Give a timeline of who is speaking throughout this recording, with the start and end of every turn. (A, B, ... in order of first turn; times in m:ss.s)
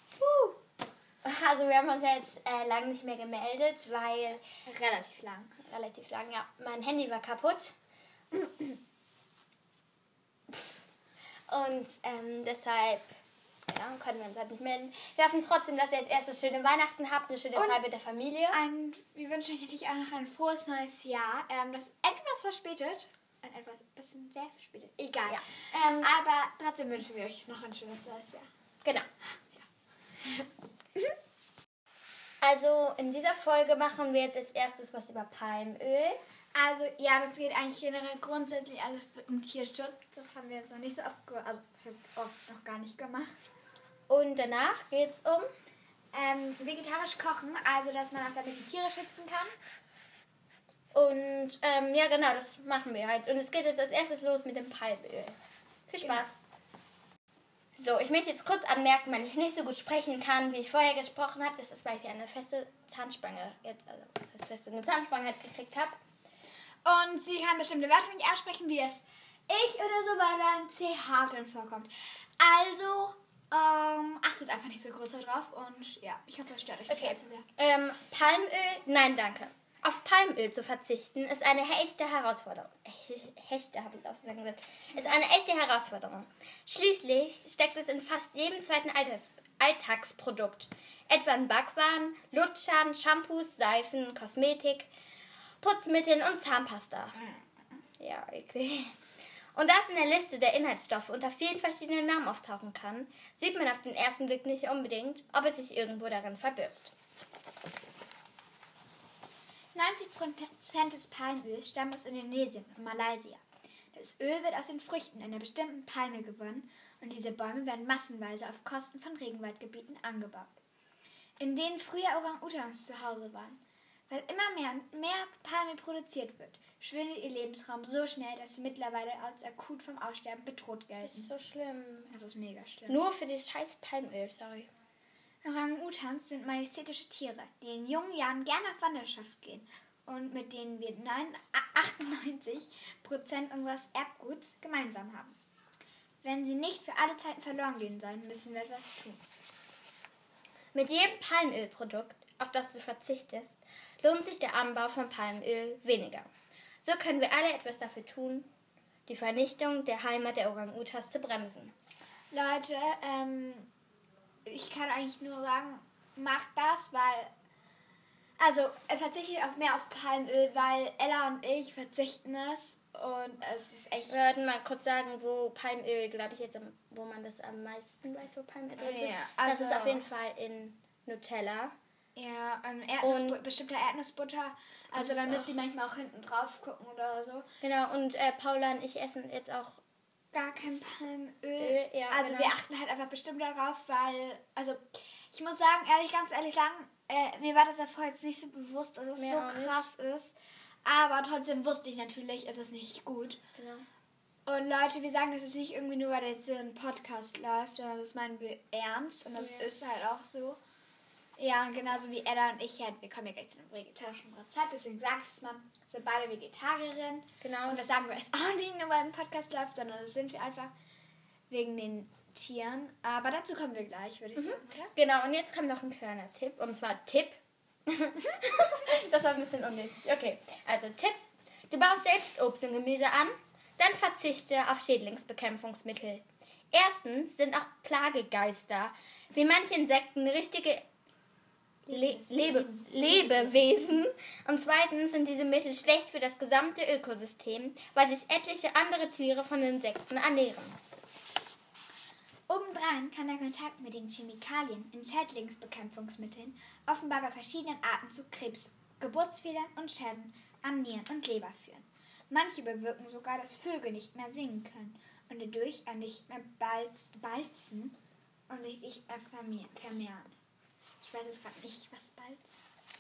0:00.2-0:00.6 A
0:01.2-0:04.5 B
0:04.7-0:05.5 A
0:05.6-0:07.7 B
0:11.5-0:13.1 B
0:13.7-0:18.6 B
0:17.6-0:17.8 A
0:18.5-0:28.5 A
0:25.3-0:26.1 B
0:32.4-0:36.2 B
0:36.5-0:43.3 A
0:44.1-0:45.5 B
0:46.1-0:49.5 A
0:50.9-0:55.4 B
0:55.9-0:56.4 B
0:57.8-1:06.0 B
1:06.8-1:17.5 A
1:16.9-1:34.9 B
1:35.6-1:37.2 B
1:38.0-1:38.9 B
1:39.6-1:46.9 B
1:49.7-1:53.4 A
1:53.9-2:00.5 A
2:01.4-2:11.3 A
2:11.0-2:12.1 B
2:12.1-2:13.0 A
2:12.9-2:14.7 B
2:15.4-2:25.4 A
2:26.2-2:29.2 A
2:30.7-2:36.3 B
2:36.8-2:38.5 B
2:39.1-2:41.7 B
2:42.3-2:43.7 A
2:44.5-2:47.3 A
2:48.4-2:54.1 A
2:54.1-3:01.7 B
2:58.8-3:00.0 A
3:02.2-3:07.5 A
3:03.0-3:03.4 B
3:05.0-3:05.5 B
3:07.6-3:09.8 B
3:10.3-3:23.4 A
3:11.6-3:12.6 B
3:19.2-3:19.9 B
3:23.6-3:23.8 B
3:24.5-3:30.6 A
3:29.4-3:29.7 B
3:31.4-3:40.7 A
3:37.4-3:37.8 B
3:41.5-3:44.9 A
3:44.4-4:00.8 B
4:01.9-4:04.0 A
4:01.9-4:10.8 B
4:12.5-4:28.0 A
4:28.5-4:30.3 A
4:31.0-4:32.5 A